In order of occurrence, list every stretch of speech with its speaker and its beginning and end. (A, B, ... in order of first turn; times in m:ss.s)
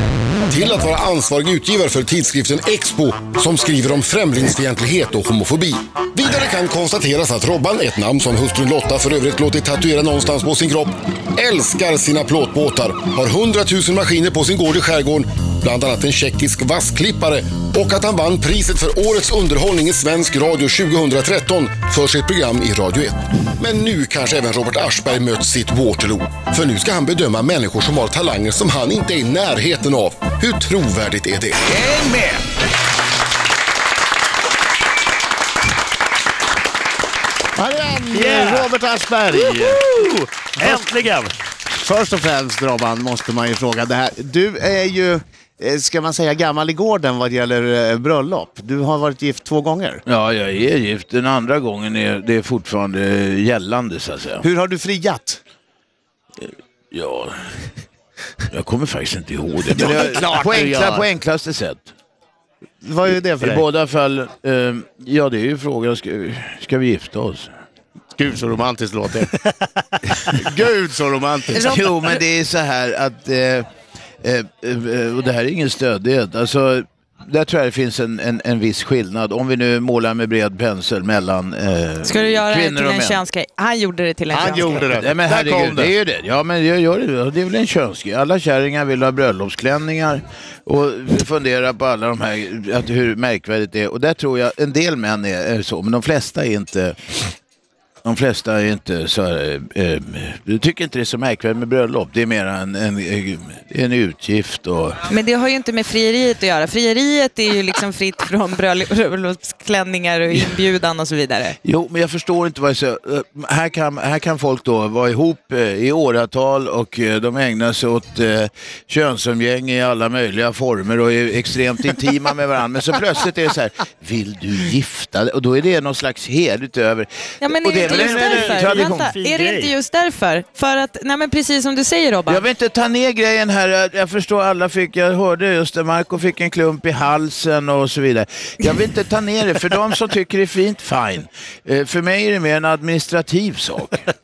0:00.4-0:31.7 A
0:31.7-0:32.4 B
0:37.5-0:39.8 C
0:38.1-0:38.7 B
0:39.3-0:41.3 B
0:41.7-0:50.0 C
0:50.1-0:54.5 D
0:54.4-0:55.4 C
0:56.4-0:57.6 D
0:58.5-1:01.9 D
0:59.7-1:01.1 C
1:02.8-1:03.6 C
1:03.4-1:07.5 D
1:08.2-1:09.3 C
1:10.3-1:11.9 C
1:11.5-1:13.7 D
1:14.2-1:23.2 D
1:22.0-1:24.9 E
1:24.3-1:25.9 C
1:24.8-1:37.3 D
1:38.0-1:45.0 D
1:45.1-1:51.6 E
1:51.6-2:09.1 D
2:07.4-2:12.4 E
2:07.8-2:09.7 B
2:12.3-2:24.1 D